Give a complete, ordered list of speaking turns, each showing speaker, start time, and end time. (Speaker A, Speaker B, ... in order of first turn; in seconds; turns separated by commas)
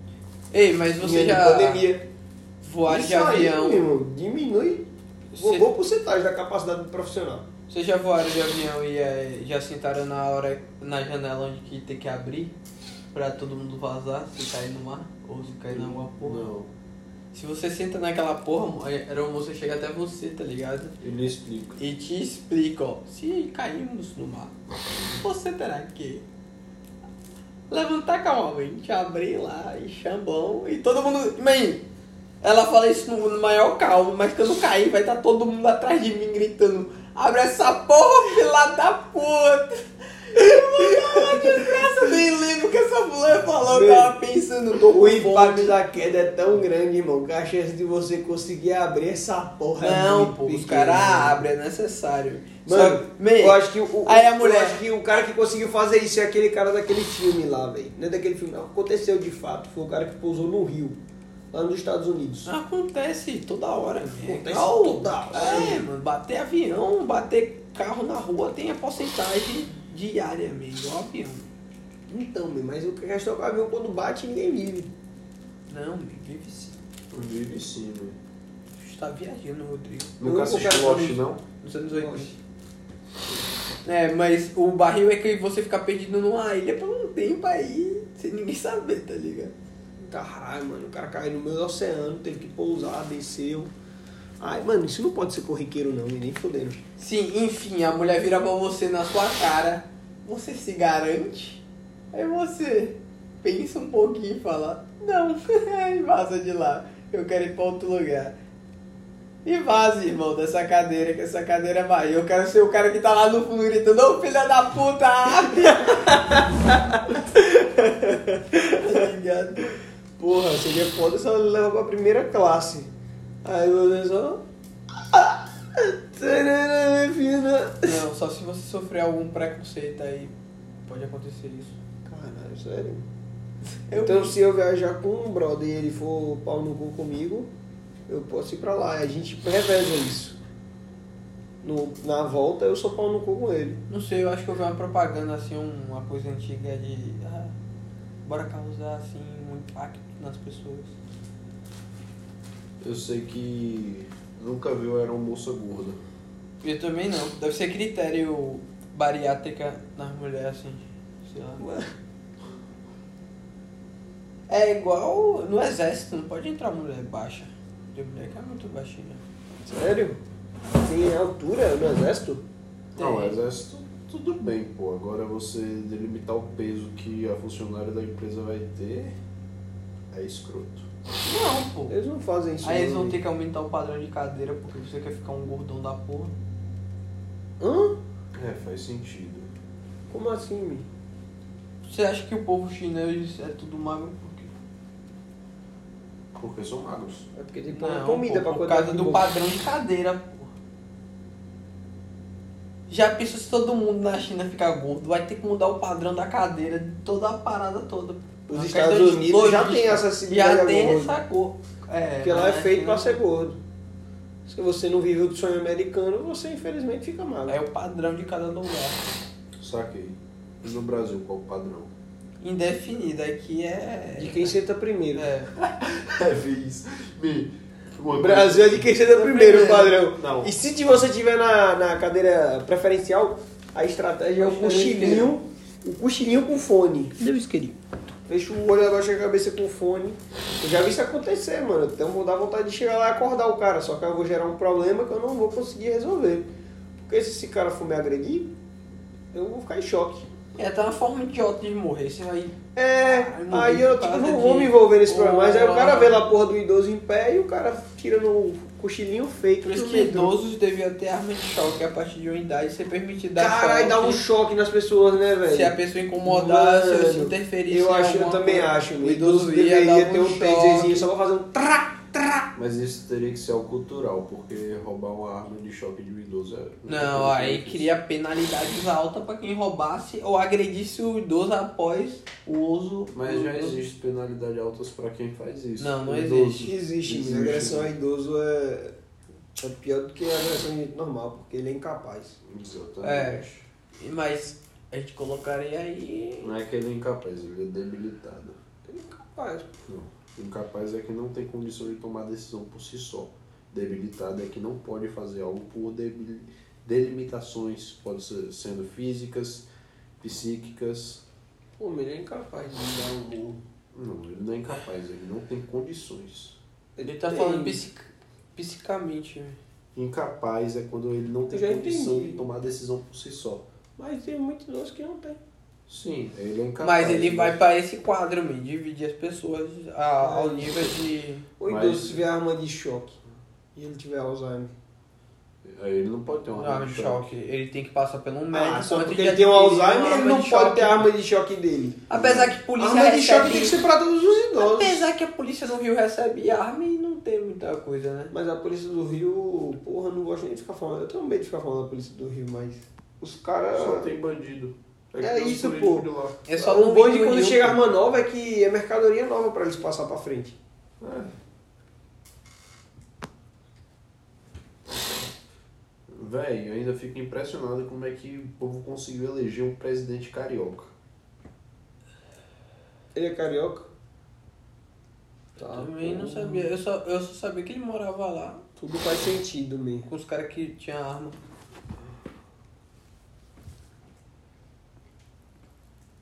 Speaker A: 0.5-1.9, Speaker B: 1.0-2.0, Speaker A: 2.6-3.9, Speaker B: 2.9-7.5, Speaker A: 5.3-5.7, Speaker A: 7.7-12.5, Speaker A: 13.1-16.5, Speaker C: 15.7-16.7, Speaker A: 17.3-20.9, Speaker C: 21.0-21.8, Speaker A: 21.8-24.5, Speaker A: 25.2-26.2, Speaker A: 27.7-31.8, Speaker A: 32.4-45.8, Speaker B: 40.8-42.1, Speaker B: 43.6-44.1, Speaker B: 44.8-51.5, Speaker A: 49.8-54.8, Speaker B: 52.6-61.0, Speaker B: 61.5-62.5, Speaker A: 62.5-71.5, Speaker B: 64.2-65.9, Speaker B: 72.1-74.9, Speaker A: 75.7-76.8, Speaker C: 77.1-78.2, Speaker A: 78.8-81.0, Speaker C: 80.2-81.4, Speaker B: 80.2-81.1, Speaker A: 81.6-82.3, Speaker B: 81.9-82.3, Speaker A: 83.8-89.5, Speaker B: 90.0-93.7, Speaker B: 94.4-96.8, Speaker A: 97.0-101.6, Speaker A: 102.1-108.3, Speaker A: 109.4-116.5, Speaker B: 115.7-119.1, Speaker A: 118.6-119.7, Speaker B: 120.2-122.9, Speaker B: 123.4-124.4, Speaker B: 125.0-128.0, Speaker A: 127.8-130.3, Speaker A: 130.8-131.7, Speaker B: 132.1-133.1, Speaker A: 133.9-134.3, Speaker B: 133.9-137.5, Speaker B: 138.1-140.4, Speaker B: 141.6-143.8, Speaker A: 143.9-147.5, Speaker A: 148.2-150.9, Speaker C: 152.8-156.0, Speaker A: 156.6-161.7, Speaker B: 161.6-161.9, Speaker A: 164.5-169.2, Speaker B: 169.6-170.2, Speaker B: 170.8-172.4, Speaker C: 172.9-179.2, Speaker A: 173.0-173.4, Speaker C: 180.1-180.9, Speaker A: 181.2-181.9, Speaker B: 181.9-183.2, Speaker A: 182.6-186.3, Speaker B: 187.6-188.0, Speaker C: 188.3-189.5, Speaker B: 190.1-190.9, Speaker A: 191.8-194.5, Speaker C: 196.3-197.3, Speaker B: 197.3-199.3, Speaker A: 197.7-200.5, Speaker A: 202.9-213.2, Speaker B: 208.5-211.1, Speaker B: 212.2-213.6, Speaker B: 214.4-217.6, Speaker A: 217.5-219.0, Speaker C: 219.6-221.9, Speaker A: 222.4-224.5, Speaker B: 224.2-225.3, Speaker A: 225.2-225.5, Speaker C: 225.6-228.9, Speaker B: 228.2-237.2, Speaker A: 229.1-230.0, Speaker C: 230.2-230.5, Speaker A: 234.4-235.3, Speaker A: 237.2-237.7, Speaker B: 238.3-246.5, Speaker B: 247.0-248.5, Speaker B: 249.3-250.3, Speaker A: 250.6-256.2, Speaker B: 252.8-260.3, Speaker A: 259.6-264.2, Speaker B: 263.4-272.5, Speaker A: 265.5-271.1, Speaker C: 272.5-277.9, Speaker A: 276.9-282.4, Speaker C: 282.4-287.9, Speaker A: 283.2-283.8, Speaker A: 285.8-286.7, Speaker B: 286.6-288.9, Speaker B: 289.5-292.4, Speaker C: 292.4-293.6, Speaker A: 293.0-293.4, Speaker A: 294.0-296.5, Speaker C: 296.4-298.6, Speaker B: 298.9-299.7, Speaker C: 299.9-309.6, Speaker C: 310.2-311.2, Speaker B: 311.8-313.6, Speaker C: 313.9-316.6, Speaker B: 316.9-317.8, Speaker A: 317.0-319.6, Speaker C: 319.9-323.6, Speaker B: 321.5-322.4, Speaker B: 324.0-325.4, Speaker C: 325.9-327.6, Speaker A: 326.8-331.5, Speaker B: 330.2-331.0, Speaker B: 331.6-333.2, Speaker C: 331.6-332.2, Speaker B: 333.7-334.7, Speaker C: 335.6-337.3, Speaker A: 336.5-341.1, Speaker B: 338.5-342.1, Speaker A: 342.1-343.8, Speaker C: 342.1-342.5, Speaker B: 342.8-345.0, Speaker A: 344.6-348.3, Speaker B: 348.3-354.1, Speaker C: 353.7-356.4, Speaker B: 355.2-356.1, Speaker A: 356.4-357.8, Speaker B: 356.6-360.6, Speaker C: 361.0-361.3, Speaker C: 366.1-370.9, Speaker B: 373.1-373.9, Speaker B: 375.6-376.7, Speaker A: 375.6-378.6, Speaker B: 378.8-380.1, Speaker A: 380.1-381.4